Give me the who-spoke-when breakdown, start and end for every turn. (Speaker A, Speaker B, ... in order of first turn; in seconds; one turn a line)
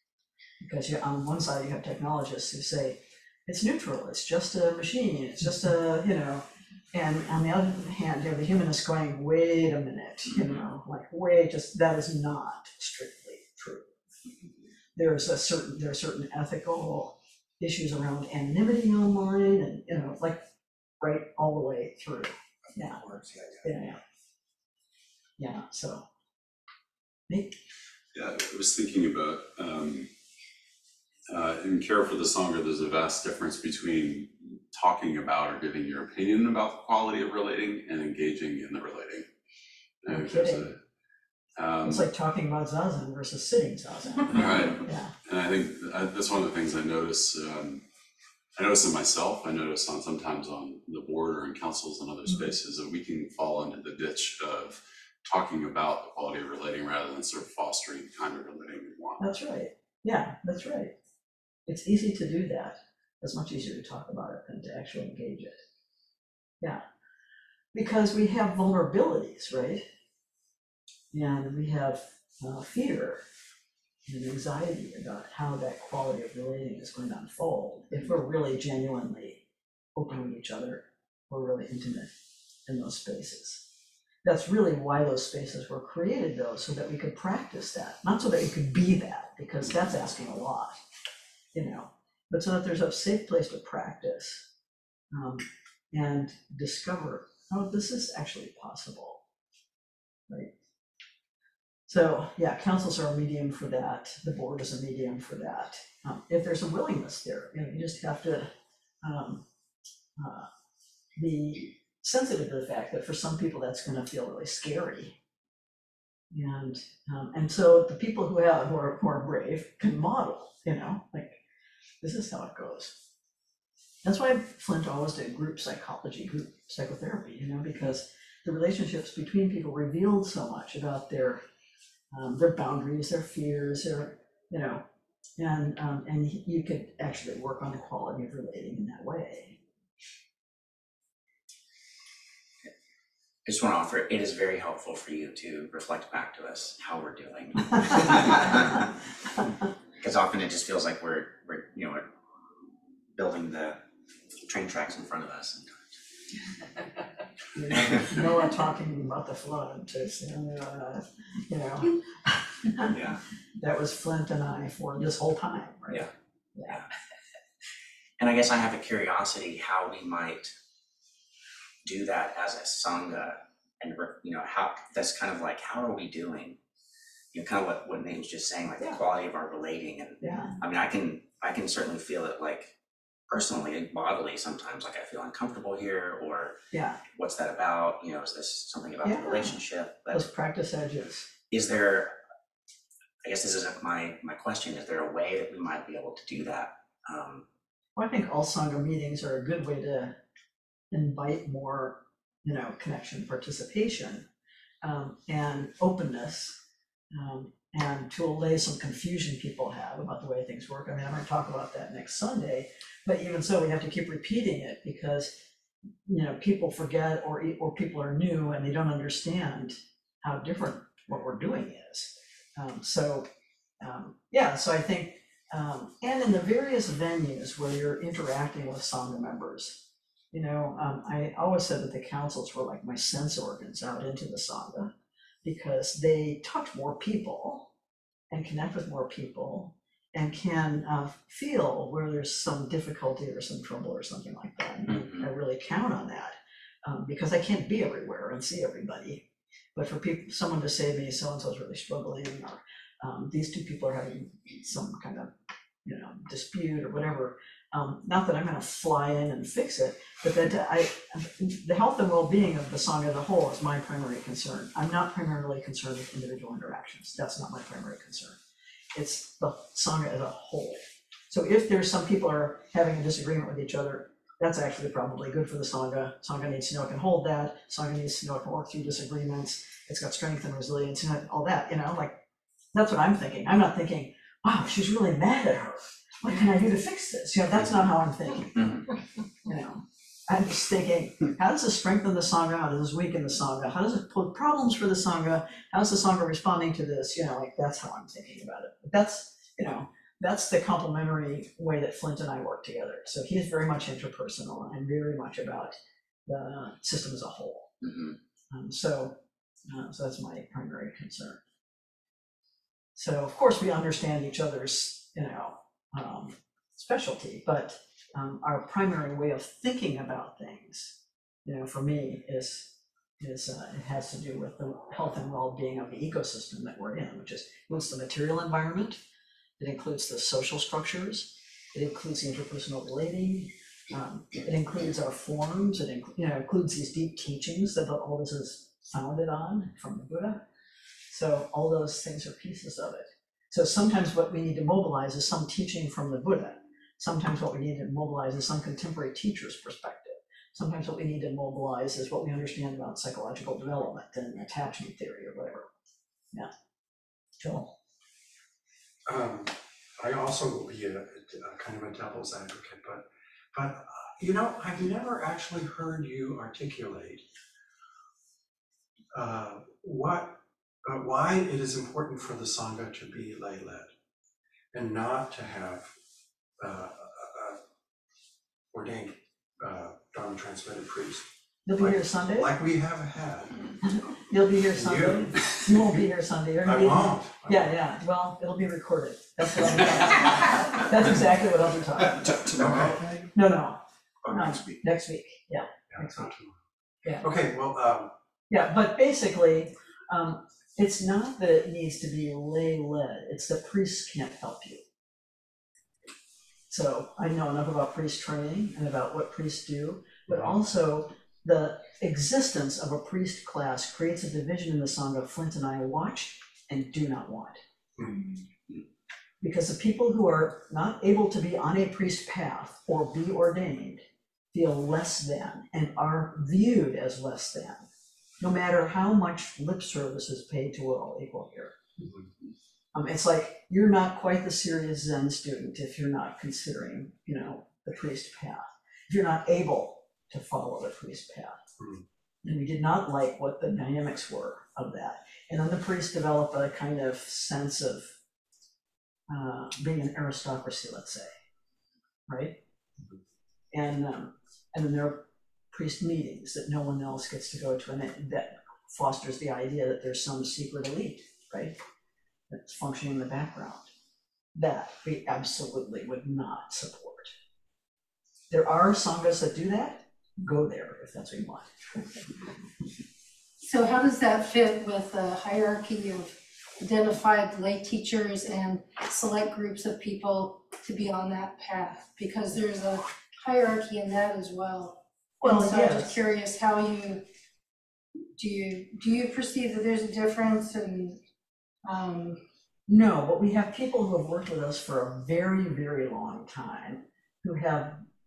Speaker A: 0.6-13.9
Speaker A: 14.9-20.4
Speaker A: 21.0-23.0
Speaker B: 22.7-23.6
Speaker A: 23.6-24.0
Speaker A: 25.4-26.0
Speaker A: 27.3-27.5
Speaker C: 28.1-30.1
Speaker C: 31.3-39.2
Speaker C: 40.0-40.8
Speaker A: 40.1-40.7
Speaker C: 41.5-42.1
Speaker A: 41.8-45.1
Speaker C: 44.3-47.8
Speaker C: 48.5-59.4
Speaker A: 59.2-60.9
Speaker A: 61.7-65.6
Speaker A: 67.7-69.8
Speaker A: 71.1-73.2
Speaker A: 74.0-79.4
Speaker A: 80.0-82.1
Speaker A: 82.7-83.6
Speaker A: 84.2-90.8
Speaker A: 91.5-94.4
Speaker A: 95.1-99.2
Speaker A: 101.9-108.5
Speaker A: 109.0-109.4
Speaker A: 110.2-110.5
Speaker A: 111.2-115.2
Speaker A: 116.3-121.4
Speaker A: 122.0-123.0
Speaker A: 124.0-131.4
Speaker A: 132.1-134.8
Speaker A: 135.4-139.6
Speaker D: 143.4-148.7
Speaker D: 150.0-152.1
Speaker D: 153.1-153.8
Speaker D: 154.4-155.9
Speaker A: 157.6-162.9
Speaker D: 162.9-163.2
Speaker A: 163.6-166.8
Speaker D: 168.2-170.5
Speaker D: 171.8-176.6
Speaker D: 177.3-182.7
Speaker A: 180.2-180.5
Speaker D: 183.3-186.6
Speaker A: 186.7-187.0
Speaker D: 187.1-190.3
Speaker A: 189.0-189.6
Speaker A: 190.1-191.3
Speaker D: 191.5-192.1
Speaker D: 193.2-197.4
Speaker A: 197.9-200.2
Speaker A: 200.9-204.2
Speaker A: 204.8-206.5
Speaker A: 207.1-215.4
Speaker A: 216.1-223.3
Speaker A: 223.8-229.8
Speaker A: 230.3-234.9
Speaker A: 235.4-237.7
Speaker A: 238.3-249.2
Speaker A: 249.8-255.3
Speaker A: 255.8-268.4
Speaker A: 268.9-282.2
Speaker A: 282.7-288.8
Speaker A: 289.4-305.7
Speaker A: 306.3-307.7
Speaker D: 307.8-308.1
Speaker A: 308.5-309.2
Speaker A: 309.7-311.4
Speaker A: 312.9-329.0
Speaker A: 329.6-340.4
Speaker A: 341.1-355.7
Speaker A: 357.4-357.7
Speaker E: 359.1-367.2
Speaker E: 369.1-373.9
Speaker E: 374.7-375.9
Speaker E: 376.6-377.6
Speaker E: 378.7-381.2
Speaker A: 381.6-382.5
Speaker E: 381.8-383.8
Speaker A: 383.8-392.4
Speaker E: 384.7-385.7
Speaker E: 386.6-387.7
Speaker B: 392.2-393.2
Speaker E: 392.4-393.0
Speaker A: 393.3-393.8
Speaker B: 394.2-394.8
Speaker A: 394.3-396.3
Speaker E: 395.9-396.5
Speaker A: 397.0-397.3
Speaker E: 397.2-398.1
Speaker A: 398.5-404.8
Speaker A: 406.7-417.6
Speaker A: 419.4-427.8
Speaker A: 428.4-431.8
Speaker E: 432.0-432.3
Speaker A: 432.9-441.6
Speaker E: 441.8-442.0
Speaker A: 442.4-448.1
Speaker A: 449.3-451.3
Speaker A: 452.3-452.6
Speaker A: 453.7-461.8
Speaker A: 462.5-463.9
Speaker A: 464.5-467.3
Speaker A: 468.5-472.0
Speaker F: 473.6-487.2
Speaker A: 485.4-486.1
Speaker F: 488.3-491.2
Speaker F: 491.8-492.4
Speaker A: 492.9-498.0